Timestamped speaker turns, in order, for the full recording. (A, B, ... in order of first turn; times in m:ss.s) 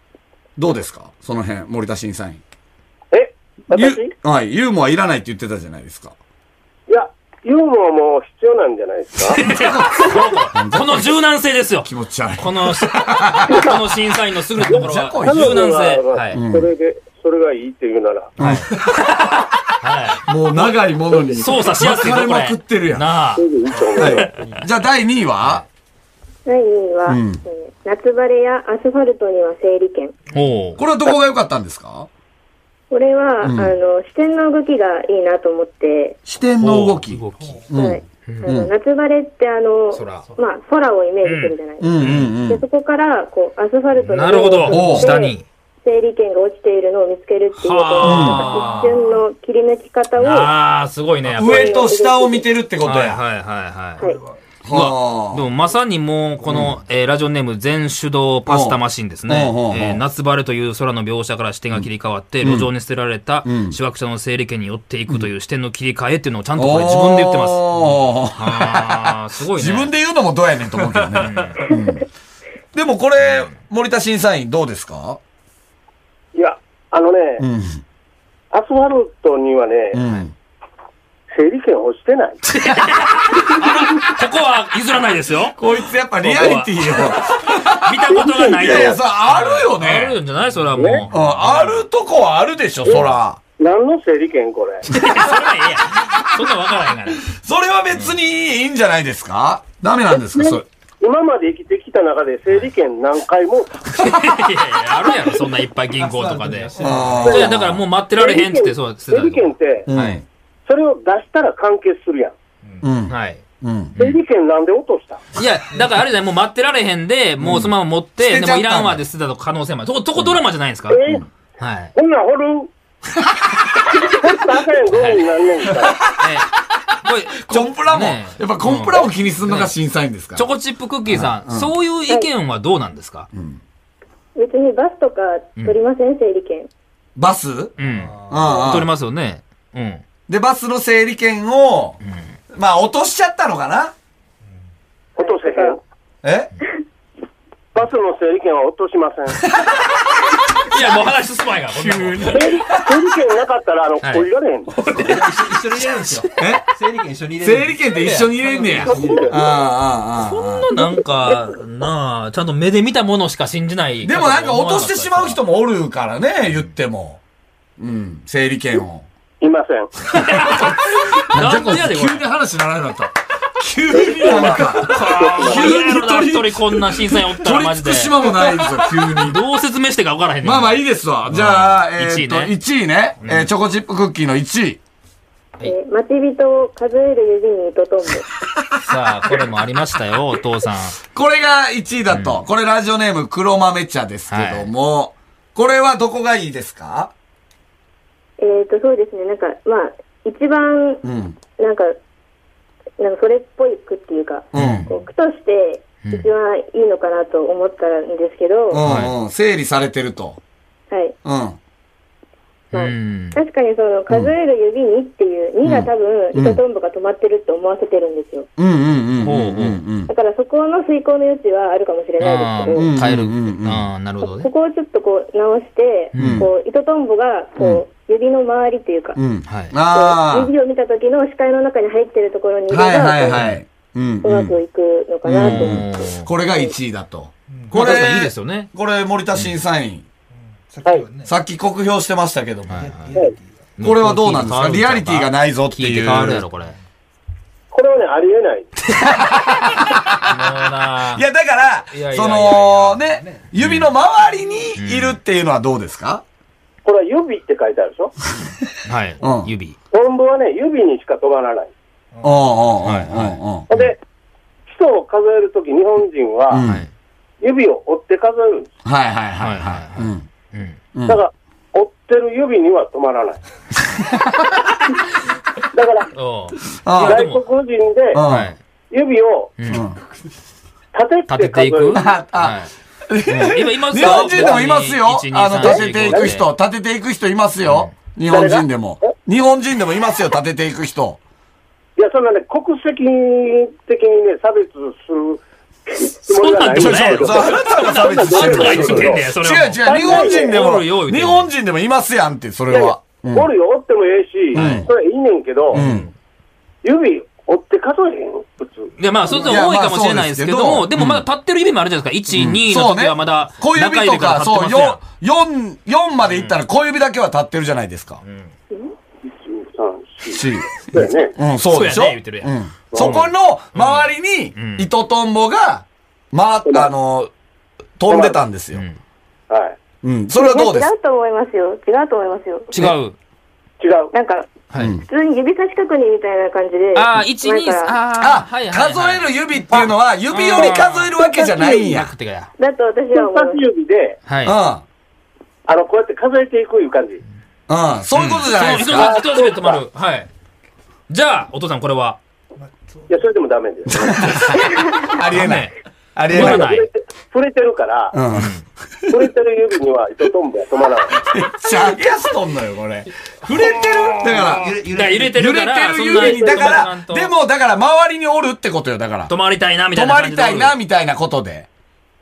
0:00.6-0:02.4 A
0:03.1-0:04.1 B
0:03.7-0:06.1 A
0:06.9-0:09.4 B
0:09.2-0:16.4 C
0:09.4-0:11.1 A
0:11.8-0:13.8 A
0:14.6-0:15.6 A
0:14.6-0:18.3 B
0:16.3-0:16.7 A
0:18.4-0:19.3 A
0:18.4-0:20.8 C
0:20.2-0:23.1 A
0:21.3-0:24.6 C
0:23.4-0:24.3 B
0:24.0-0:25.6 A
0:26.4-0:30.1 D
0:27.1-0:27.4 A
0:30.3-0:30.8 C
0:30.8-0:32.1 A
0:32.9-0:36.2 D
0:33.4-0:33.7 A
0:36.2-0:38.7 A
0:36.6-0:37.7 C
0:37.4-0:37.7 E
0:37.7-0:50.5 D
0:38.3-0:38.6 C
0:39.9-0:40.3 C
0:41.2-0:42.3 C
0:41.8-0:42.6 A
0:44.0-0:45.4 C
0:44.7-0:45.1 A
0:47.6-0:49.1 C
0:48.0-0:48.5 A
0:50.2-0:51.8 C
0:51.3-0:53.2 A
0:51.4-0:52.5 D
0:52.8-0:54.0 C
0:54.6-0:55.4 A
0:54.7-1:09.9 C
0:56.5-0:56.8 A
0:58.5-1:00.0 A
1:02.4-1:02.7 A
1:03.4-1:03.8 A
1:06.6-1:12.0 A
1:11.1-1:11.7 C
1:12.7-1:15.2 A
1:13.2-1:13.5 C
1:16.3-1:17.4 B
1:17.4-1:17.8 A
1:18.5-1:20.0 B
1:19.9-1:20.3 A
1:21.3-1:22.4 B
1:22.4-1:25.6 C
1:25.6-1:28.0 A
1:26.2-1:31.8 C
1:28.1-1:29.0 B
1:28.5-1:30.2 A
1:30.7-1:31.0 B
1:31.1-1:33.4 A
1:32.8-1:34.9 B
1:34.9-1:37.3 C
1:37.2-1:40.6 A
1:40.3-1:44.1 B
1:43.9-1:50.2 C
1:46.0-1:47.3 E
1:46.8-1:47.8 A
1:47.2-1:47.6 B
1:48.2-1:49.9 B
1:49.9-1:50.2 A
1:50.6-1:52.3 B
1:52.8-1:53.9 A
1:53.1-1:53.4 C
1:54.0-1:55.2 B
1:55.3-2:01.0 C
1:57.4-1:59.0 A
2:00.9-2:01.2 B
2:01.6-2:01.9 C
2:02.0-2:02.7 B
2:04.0-2:06.0 B
2:04.9-2:05.3 C
2:05.8-2:06.3 A
2:06.1-2:09.7 C
2:07.4-2:10.5 A
2:10.3-2:13.3 C
2:11.1-2:11.7 A
2:13.3-2:13.6 A
2:14.4-2:16.7 D
2:17.2-2:17.7 A
2:17.8-2:20.0 C
2:17.8-2:18.6 E
2:18.3-2:18.9 A
2:20.3-2:22.0 A
2:22.5-2:23.9 A
2:25.2-2:25.8 B
2:25.2-2:25.8 D
2:26.2-2:26.5 A
2:27.7-2:29.4 B
2:30.6-2:32.5 C
2:31.8-2:33.0 A
2:32.3-2:34.7 B
2:34.0-2:36.2 C
2:35.0-2:39.4 E
2:36.4-2:36.6 A
2:37.4-2:40.7 A
2:38.7-2:39.4 B
2:40.1-2:45.4 C
2:44.0-2:47.2 A
2:47.8-2:49.0 A
2:49.4-2:50.4 B
2:50.1-2:52.2 C
2:50.2-2:59.4 A
2:53.9-2:55.7 B
2:54.4-2:58.4 C
2:59.1-3:02.5 C
3:00.4-3:04.8 A
3:03.2-3:03.5 C
3:05.6-3:08.3 D
3:08.5-3:08.9 A
3:08.8-3:11.0 C
3:11.0-3:17.1 A
3:12.1-3:12.4 C
3:14.3-3:14.7 C
3:18.4-3:21.0 D
3:21.0-3:21.4 A
3:21.6-3:21.9 D
3:23.0-3:28.8 D
3:24.5-3:24.9 A
3:24.5-3:24.9 C
3:26.0-3:26.3 C
3:28.7-3:30.4 A
3:28.8-3:29.2 C
3:31.2-3:31.6 A
3:32.7-3:33.4 C
3:32.7-3:38.5 D
3:35.6-3:36.6 A
3:38.6-3:40.1 A
3:39.2-3:39.8 C
3:40.1-3:42.9 D
3:42.2-3:44.5 C
3:42.8-3:43.9 A
3:44.2-3:49.2 D
3:46.1-3:46.5 C
3:46.2-3:46.5 A
3:47.6-3:47.8 A
3:49.2-3:50.5 A
3:49.5-3:49.7 C
3:49.9-3:53.4 D
3:52.7-3:54.6 A
3:53.3-3:53.6 C
3:54.2-3:55.8 D
3:55.2-4:00.0 A
3:55.4-3:56.3 C
3:57.5-3:58.0 E
3:57.7-3:58.7 C
4:00.7-4:01.3 E
4:01.2-4:02.8 A
4:02.7-4:03.2 C
4:02.7-4:03.7 E
4:03.8-4:06.8 C
4:03.8-4:06.4 A
4:07.7-4:08.7 B
4:09.0-4:10.5 A
4:10.2-4:11.2 C
4:11.1-4:16.2 A
4:11.9-4:13.0 C
4:13.0-4:13.5 E
4:13.6-4:13.9 C
4:14.8-4:15.2 C
4:16.8-4:18.1 B
4:18.8-4:19.8 C
4:19.2-4:19.5 A
4:19.9-4:21.7 B
4:22.1-4:22.4 E
4:22.2-4:23.7 A
4:22.8-4:23.9 C
4:23.7-4:24.0 B
4:24.7-4:26.6 B
4:26.5-4:26.8 A
4:26.6-4:26.9 C
4:27.4-4:28.7 B
4:28.8-4:30.2 A
4:29.4-4:30.8 C
4:30.9-4:31.2 A
4:31.0-4:33.4 B
4:34.0-4:34.7 A
4:35.7-4:36.1 B
4:36.1-4:37.4 C
4:36.8-4:37.2 A
4:37.0-4:38.2 B
4:38.1-4:38.5 A
4:38.2-4:38.6 C
4:38.9-4:39.5 B
4:39.6-4:39.8 C
4:39.7-4:40.0 A
4:40.9-4:42.0 B
4:41.3-4:42.7 C
4:41.9-4:51.2 A
4:43.2-4:46.5 C
4:44.0-4:44.6 B
4:45.6-4:46.3 B
4:47.6-4:47.9 C
4:48.3-4:49.1 B
4:52.0-4:59.3 B
4:56.3-5:01.5 C
4:56.7-5:03.5 A
4:59.8-5:00.5 B
5:02.7-5:05.8 B
5:04.5-5:04.9 A
5:04.5-5:04.8 C
5:05.7-5:06.1 C
5:05.7-5:06.1 A
5:06.8-5:09.5 B
5:09.0-5:15.0 C
5:09.4-5:11.2 A
5:12.3-5:18.2 A
5:16.2-5:16.6 C
5:18.2-5:18.5 C
5:19.2-5:21.3 B
5:20.3-5:27.3 A
5:21.7-5:24.9 C
5:22.9-5:23.2 B
5:28.0-5:28.8 A
5:28.1-5:28.4 B
5:28.7-5:29.0 C
5:29.5-5:29.8 B
5:30.0-5:30.9 A
5:30.4-5:32.9 D
5:32.7-5:33.2 C
5:33.8-5:34.1 B
5:34.1-5:38.0 D
5:34.8-5:35.0 A
5:36.9-5:39.3 C
5:38.2-5:42.1 A
5:40.3-5:41.1 C
5:41.4-5:41.7 D
5:41.8-5:42.5 C
5:42.6-5:43.6 D
5:43.1-5:44.2 B
5:44.3-5:44.6 C
5:44.4-5:44.8 A
5:45.7-5:47.2 B
5:47.7-5:49.1 A
5:48.1-5:50.3 C
5:48.8-5:49.8 B
5:51.1-5:52.2 C
5:52.6-5:53.1 E
5:53.1-5:54.9 B
5:53.9-5:56.7 A
5:55.2-5:55.7 C
5:56.3-5:56.9 C
5:56.3-5:58.2 B
5:58.1-5:59.1 A
5:58.4-5:58.6 C
5:59.1-6:01.2 B
6:01.2-6:04.7 A
6:03.4-6:07.3 C
6:04.3-6:05.4 E
6:05.2-6:09.3 A
6:06.2-6:06.8 B
6:09.3-6:10.8 C
6:09.9-6:11.7 A